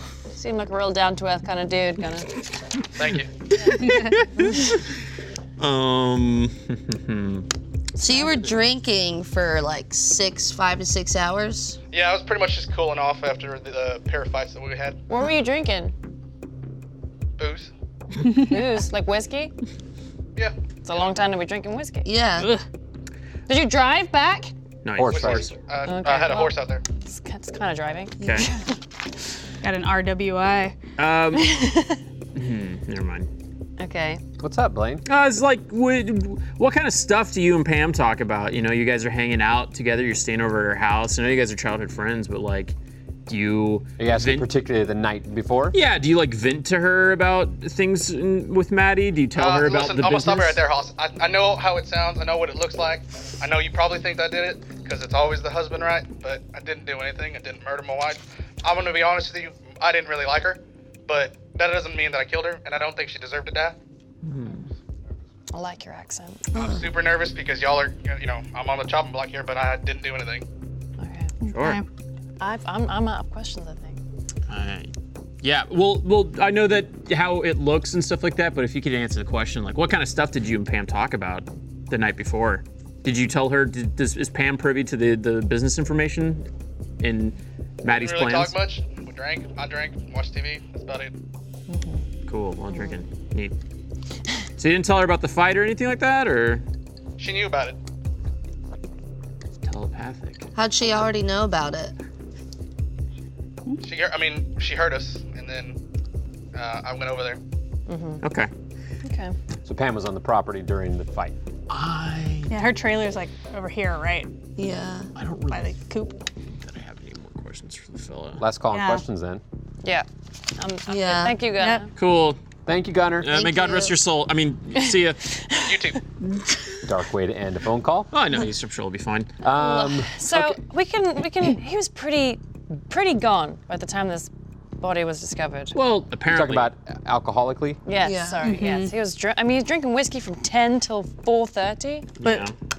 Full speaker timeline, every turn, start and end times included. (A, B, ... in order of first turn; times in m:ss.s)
0:00.3-0:02.4 A
0:03.0-0:03.3 B
0:03.1-0:05.0 C
0:05.6-0:07.5 C
0:08.0-0:11.8 D
0:08.0-0:08.5 A
0:11.9-0:15.0 B
0:15.1-0:15.9 A
0:17.4-0:17.7 B
0:18.3-0:18.6 E
0:18.4-0:19.5 A
0:20.4-0:21.1 B
0:20.8-0:22.1 A
0:22.0-0:22.5 D
0:22.4-0:22.6 E
0:23.5-0:24.5 A
0:24.8-0:25.6 C
0:25.0-0:25.5 F
0:25.1-0:26.8 B
0:25.8-0:28.6 A
0:28.2-0:28.5 C
0:29.6-0:30.8 E
0:31.0-0:31.6 C
0:32.3-0:33.3 C
0:33.8-0:34.2 A
0:34.4-0:35.0 F
0:35.0-0:42.8 C
0:43.3-0:44.5 C
0:44.0-0:45.8 F
0:45.7-0:50.6 C
0:49.3-1:03.8 B
1:04.2-1:04.7 C
1:05.5-1:06.5 A
1:06.5-1:10.4 B
1:06.6-1:06.9 D
1:11.0-1:11.4 A
1:11.4-1:11.8 E
1:11.5-1:11.8 C
1:12.4-1:14.0 A
1:14.5-1:26.5 C
1:27.0-1:28.6 C
1:27.9-1:31.1 B
1:31.7-1:32.0 A
1:32.3-1:33.5 C
1:34.6-1:36.6 C
1:37.2-1:37.8 B
1:39.6-1:40.5 C
1:40.6-1:41.9 D
1:43.8-1:45.8 B
1:46.5-1:47.4 B
1:47.9-1:48.2 A
1:48.2-1:48.5 C
1:49.0-1:49.4 A
1:49.6-1:51.4 F
1:51.7-1:52.5 C
1:52.5-1:54.3 E
1:54.6-1:55.1 D
1:55.2-1:55.8 C
1:55.5-1:56.2 E
1:56.5-1:58.4 C
1:58.4-1:59.4 F
1:58.7-1:59.0 E
2:00.6-2:01.9 A
2:00.9-2:01.4 D
2:01.6-2:01.9 E
2:02.0-2:02.4 C
2:02.7-2:03.5 F
2:03.2-2:05.5 C
2:03.3-2:04.0 D
2:05.6-2:06.0 B
2:06.8-2:08.1 F
2:08.1-2:09.4 C
2:09.4-2:10.6 F
2:09.5-2:15.8 A
2:15.7-2:16.7 C
2:16.3-2:17.8 F
2:17.9-2:22.1 A
2:18.0-2:18.6 D
2:18.4-2:18.9 E
2:22.2-2:22.6 C